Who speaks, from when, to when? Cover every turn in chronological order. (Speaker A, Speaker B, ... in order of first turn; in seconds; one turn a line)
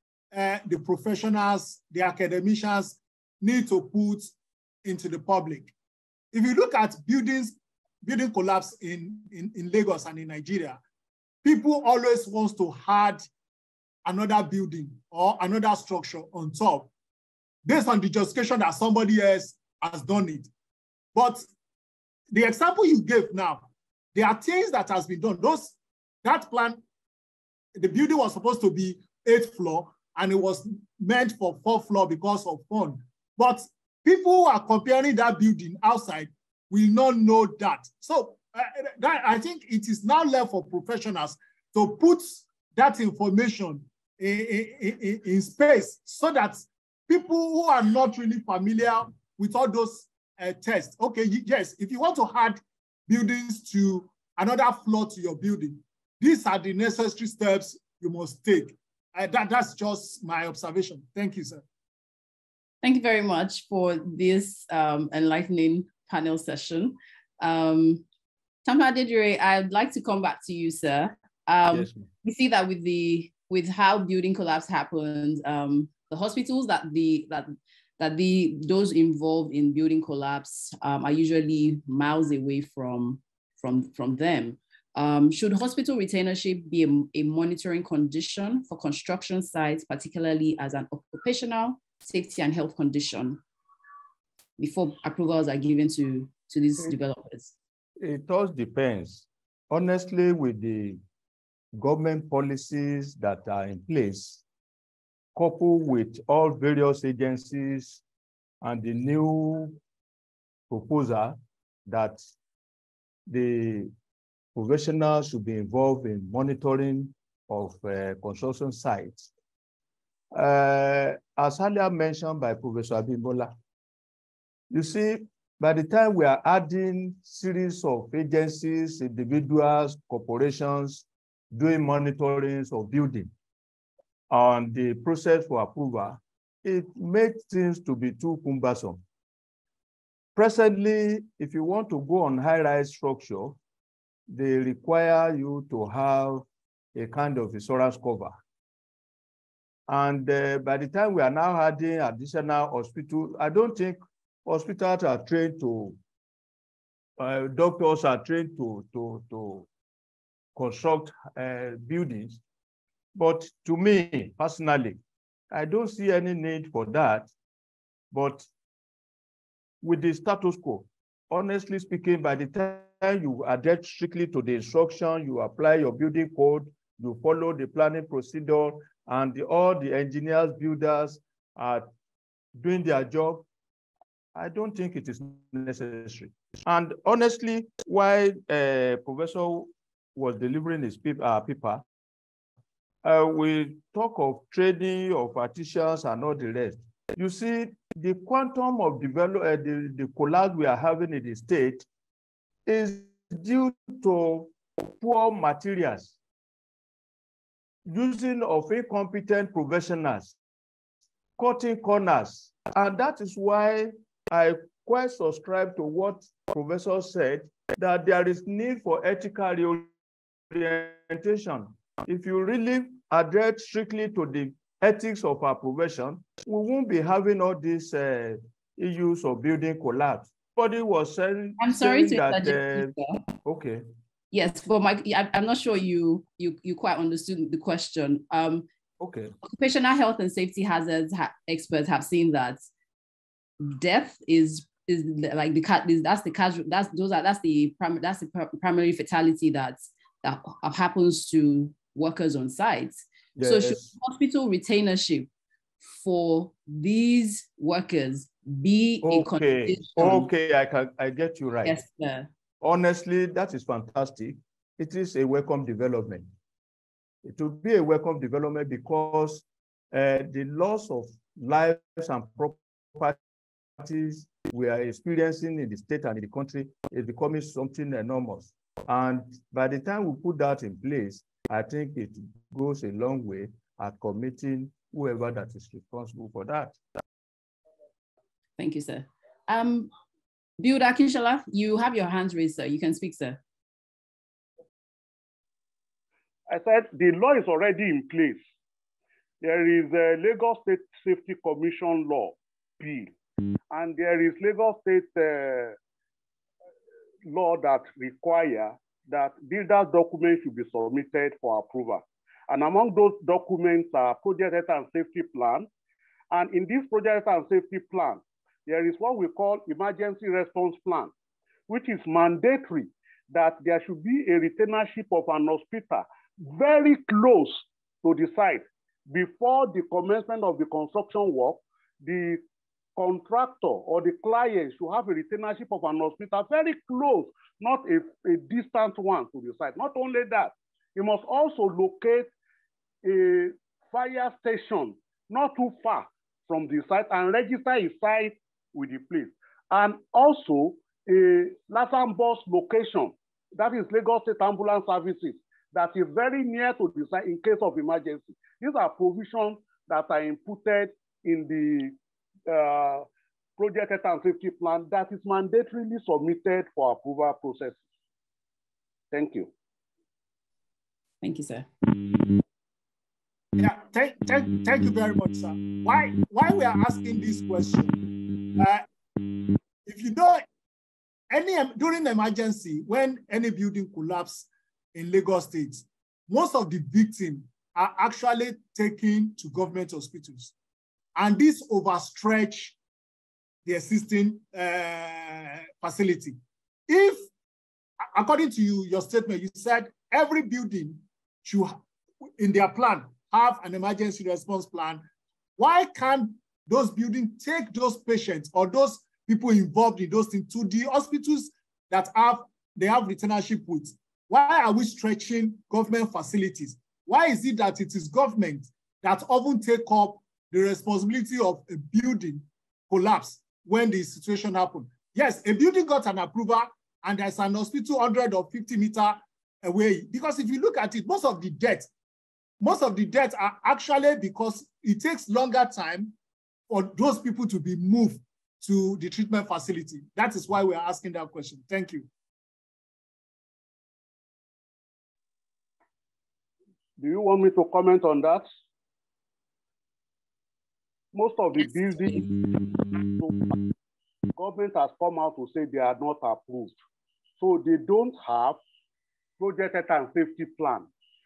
Speaker A: 0.3-4.3
Speaker A: 4.8-5.7
Speaker A: 6.3-10.8
Speaker A: 11.4-13.3
Speaker A: 14.1-16.9
Speaker A: 17.6-20.5
Speaker A: 21.1-21.5
Speaker A: 22.3-26.8
Speaker A: 27.8-61.6
Speaker B: 62.8-68.0
Speaker B: 68.7-93.4
Speaker C: 71.7-72.1
Speaker B: 94.6-97.5
Speaker C: 98.0-101.0
Speaker C: 101.8-104.4
Speaker C: 105.3-108.0
Speaker C: 108.6-109.8
Speaker C: 110.7-112.2
Speaker C: 113.3-113.9
Speaker C: 114.5-119.3
Speaker C: 120.3-123.5
Speaker C: 124.7-133.3
Speaker C: 134.3-139.0
Speaker C: 140.3-143.6
Speaker C: 144.3-148.4
Speaker C: 149.9-156.0
Speaker C: 157.2-159.7
Speaker C: 160.6-162.4
Speaker C: 163.2-165.0
Speaker C: 165.5-167.3
Speaker C: 168.1-168.5
Speaker C: 169.8-181.9
Speaker C: 182.6-183.4
Speaker C: 184.4-191.8
Speaker C: 193.0-201.9
Speaker C: 202.7-206.1
Speaker C: 207.9-210.3
Speaker C: 211.4-219.9
Speaker C: 220.5-232.9
Speaker B: 231.6-233.2
Speaker C: 233.4-233.8
Speaker B: 234.3-238.7
Speaker C: 239.0-239.3
Speaker B: 239.4-242.7
Speaker B: 243.6-255.3
Speaker C: 253.4-253.9
Speaker B: 255.9-260.3
Speaker C: 259.0-261.8
Speaker B: 261.6-262.3
Speaker C: 262.6-266.3
Speaker C: 267.2-273.2
Speaker C: 273.8-286.8
Speaker B: 288.6-289.9
Speaker B: 290.6-293.4
Speaker D: 296.5-298.4
Speaker D: 299.4-303.1
Speaker D: 303.7-305.8
Speaker D: 307.3-315.7
Speaker D: 316.3-321.1
Speaker D: 321.7-332.4
Speaker D: 333.0-342.3
Speaker D: 343.0-361.9
Speaker D: 362.5-363.1
Speaker D: 363.6-367.8
Speaker D: 369.1-369.5
Speaker B: 371.2-371.7
Speaker A: 373.6-378.0
Speaker A: 378.6-378.9
Speaker A: 379.9-380.4
Speaker A: 381.3-390.5
Speaker A: 391.2-392.8
Speaker A: 393.7-396.4
Speaker A: 396.9-397.3
Speaker A: 398.1-401.8
Speaker A: 402.4-405.0
Speaker A: 405.6-431.9
Speaker A: 432.6-436.1
Speaker A: 436.7-442.1
Speaker D: 447.0-448.4
Speaker D: 451.1-452.4
Speaker D: 454.4-456.7
Speaker D: 457.4-458.6
Speaker D: 459.4-460.9